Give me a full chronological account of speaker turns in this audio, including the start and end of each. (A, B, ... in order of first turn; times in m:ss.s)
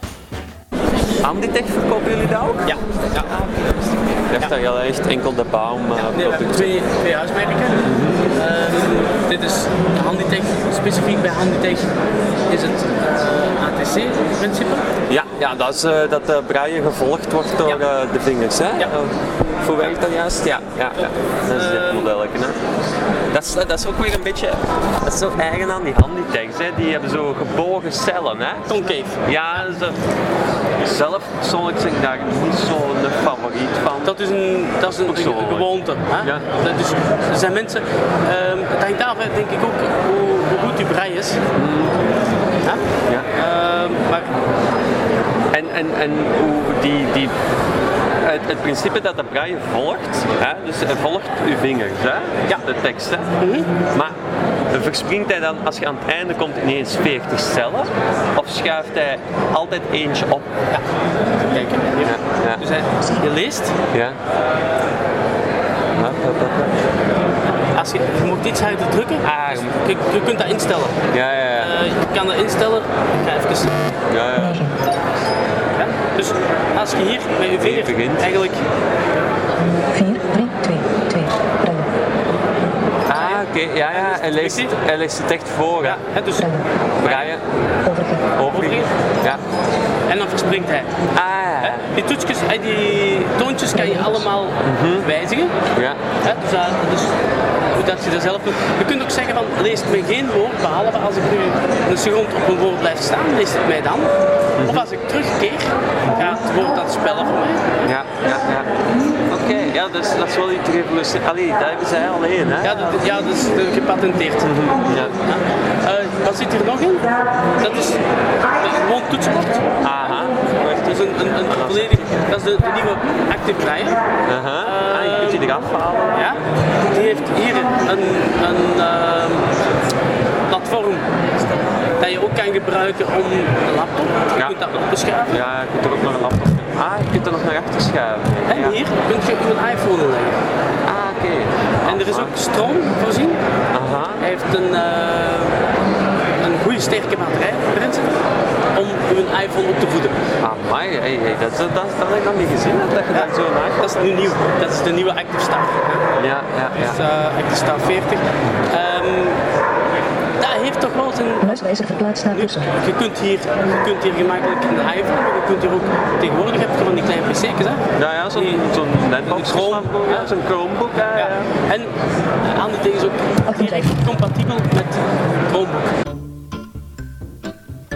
0:01.2-0:03.6 A
0:02.6-0:03.3 B
0:04.2-0:06.8 A
0:06.0-0:11.9 B
0:07.8-0:08.2 A
0:12.5-0:14.9 B
0:15.1-0:22.6 A
0:21.0-0:22.1 B
0:23.3-0:30.0 A
0:28.7-0:29.2 B
0:30.8-0:34.2 A
0:34.0-0:41.4 B
0:34.8-0:36.4 A
0:41.5-0:42.0 A
0:42.6-0:44.3 B
0:45.5-0:47.3 A
0:48.2-0:54.2 A
0:53.4-0:53.7 B
0:54.7-1:00.5 A
1:01.4-1:03.8 B
1:02.0-1:02.6 A
1:03.9-1:04.2 A
1:05.9-1:06.8 A
1:07.7-1:11.0 B
1:09.2-1:09.8 A
1:11.1-1:11.7 A
1:11.6-1:13.7 B
1:14.1-1:14.7 A
1:14.4-1:14.7 C
1:15.7-1:18.6 B
1:17.5-1:18.4 A
1:19.6-1:21.9 C
1:23.1-1:24.8 B
1:23.1-1:26.0 A
1:25.8-1:27.3 B
1:26.4-1:26.7 C
1:27.0-1:27.4 A
1:27.8-1:28.3 C
1:28.4-1:29.4 A
1:28.5-1:28.9 B
1:30.1-1:31.0 B
1:31.1-1:31.9 A
1:31.6-1:35.6 B
1:33.8-1:34.2 C
1:34.6-1:35.1 A
1:35.7-1:36.0 A
1:36.2-1:37.1 B
1:37.7-1:44.1 B
1:44.6-1:44.9 A
1:44.6-1:47.7 B
1:46.1-1:46.4 A
1:47.8-1:48.7 A
1:49.3-1:53.0 A
1:52.6-1:54.6 B
1:54.4-1:55.1 A
1:55.2-1:58.0 B
1:58.5-2:04.0 B
1:59.8-2:00.5 A
2:01.3-2:02.0 A
2:04.2-2:06.2 A
2:04.6-2:05.5 B
2:06.1-2:09.5 B
2:10.5-2:11.1 B
2:12.0-2:15.4 B
2:14.3-2:14.7 A
2:15.3-2:18.8 A
2:18.4-2:20.4 B
2:20.8-2:22.4 A
2:21.8-2:23.4 B
2:23.7-2:24.2 A
2:24.2-2:25.6 B
2:26.4-2:28.2 B
2:28.7-2:30.2 B
2:30.4-2:34.2 A
2:33.1-2:36.0 B
2:36.2-2:37.0 A
2:36.8-2:39.4 B
2:40.4-2:41.7 B
2:41.4-2:42.7 C
2:42.3-2:48.6 B
2:47.9-2:51.5 A
2:49.2-2:50.3 B
2:51.1-2:51.9 B
2:52.4-2:55.9 B
2:53.5-2:53.9 C